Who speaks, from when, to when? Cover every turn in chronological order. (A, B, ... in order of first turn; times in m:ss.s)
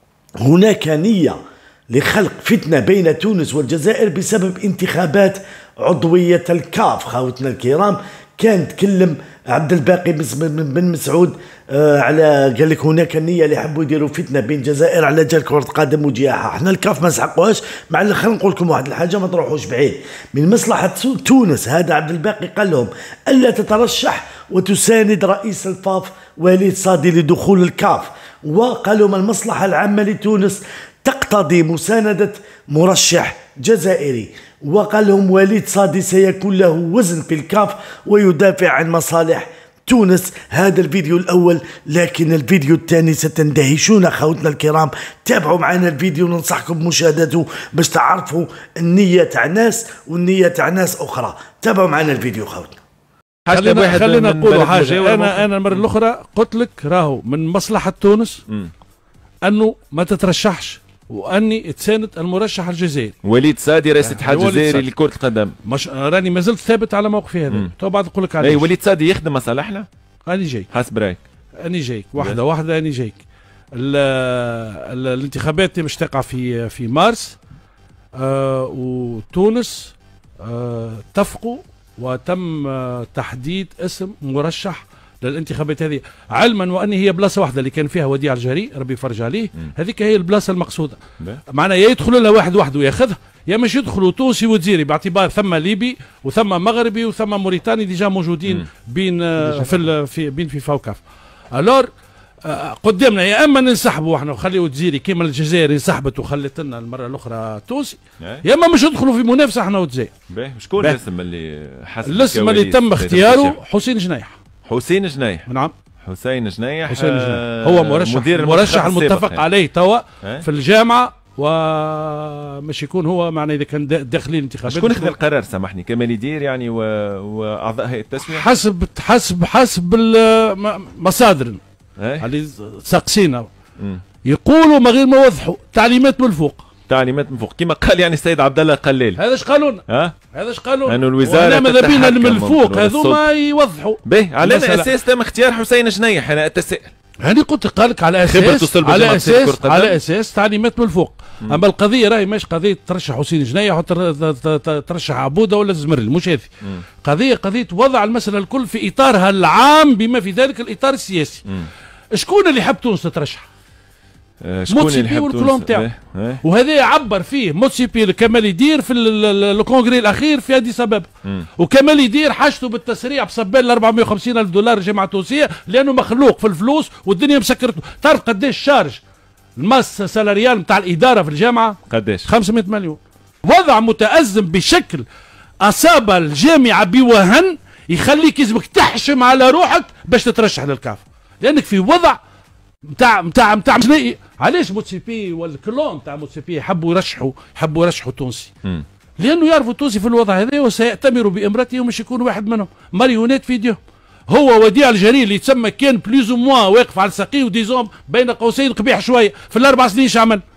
0:00.4-0:01.4 A
0:01.9-0:52.8 A
0:53.5-0:55.8 B
0:53.5-0:58.4 C
0:59.4-1:03.1 C
1:03.2-1:05.5 B
1:04.0-1:04.9 C
1:05.6-1:08.7 C
1:08.4-1:09.9 B
1:10.3-1:10.7 C
1:10.7-1:11.2 B
1:11.6-1:13.2 C
1:13.8-1:17.4 C
1:18.2-1:31.0 C
1:31.5-1:41.0 C
1:41.5-1:41.9 C
1:42.4-1:50.1 C
1:48.2-1:48.4 B
1:50.3-1:53.6 B
1:52.0-1:54.3 C
1:54.6-1:55.4 B
1:55.5-1:55.7 C
1:56.0-1:59.5 B
1:56.9-2:05.2 C
2:04.6-2:08.5 B
2:08.2-2:11.6 C
2:12.0-2:12.2 B
2:12.2-2:13.4 C
2:14.2-2:16.6 C
2:16.9-2:19.2 B
2:19.2-2:24.9 C
2:19.9-2:20.1 B
2:20.9-2:23.2 B
2:24.0-2:26.9 B
2:27.2-2:36.5 C
2:28.2-2:30.0 B
2:37.0-2:41.4 C
2:42.1-2:43.4 C
2:44.4-2:46.4 B
2:44.7-2:45.9 C
2:46.4-2:59.0 C
2:59.6-3:05.0 C
3:01.9-3:02.3 B
3:05.6-3:12.2 C
3:13.0-3:18.5 C
3:19.2-3:23.8 C
3:24.3-3:30.4 C